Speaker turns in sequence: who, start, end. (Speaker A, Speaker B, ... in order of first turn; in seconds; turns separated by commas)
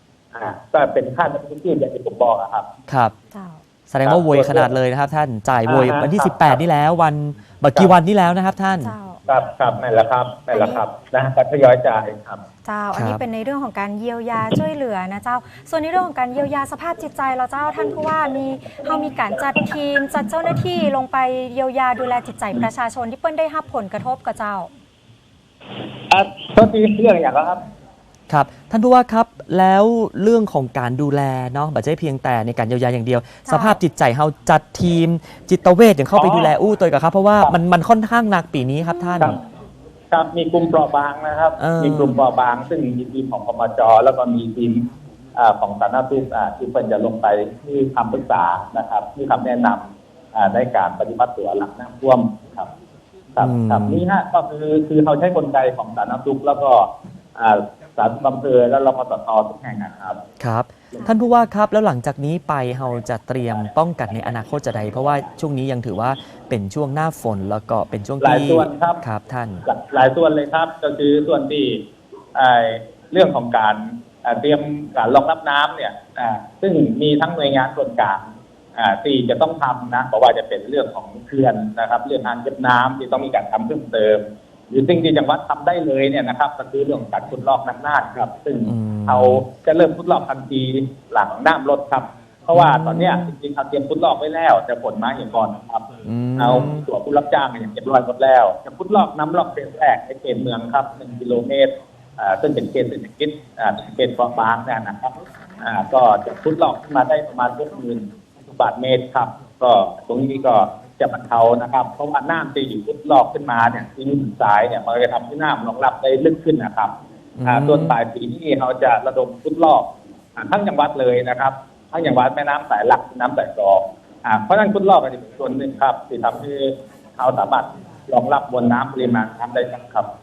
Speaker A: 0.3-2.7, Speaker B: 2.9-3.1, Speaker C: 3.3-3.6, Speaker B: 3.9-8.9, Speaker A: 4.0-4.7, Speaker A: 5.7-6.6, Speaker C: 8.8-9.2, Speaker A: 9.3-12.4, Speaker C: 10.5-10.8, Speaker C: 12.7-24.7, Speaker B: 12.9-13.2, Speaker A: 26.1-27.6, Speaker B: 28.3-39.4, Speaker C: 33.5-33.8, Speaker A: 36.1-36.5, Speaker C: 39.0-39.5, Speaker A: 40.1-52.7, Speaker B: 41.6-42.2, Speaker A: 53.4-60.2, Speaker B: 53.4-54.0, Speaker B: 60.4-69.6, Speaker A: 63.5-65.3, Speaker A: 68.2-69.0, Speaker A: 69.6-71.8, Speaker A: 72.3-95.8, Speaker B: 88.7-89.4, Speaker B: 92.5-93.3, Speaker B: 96.0-96.8, Speaker A: 96.4-116.9, Speaker B: 117.4-118.0, Speaker A: 117.5-130.1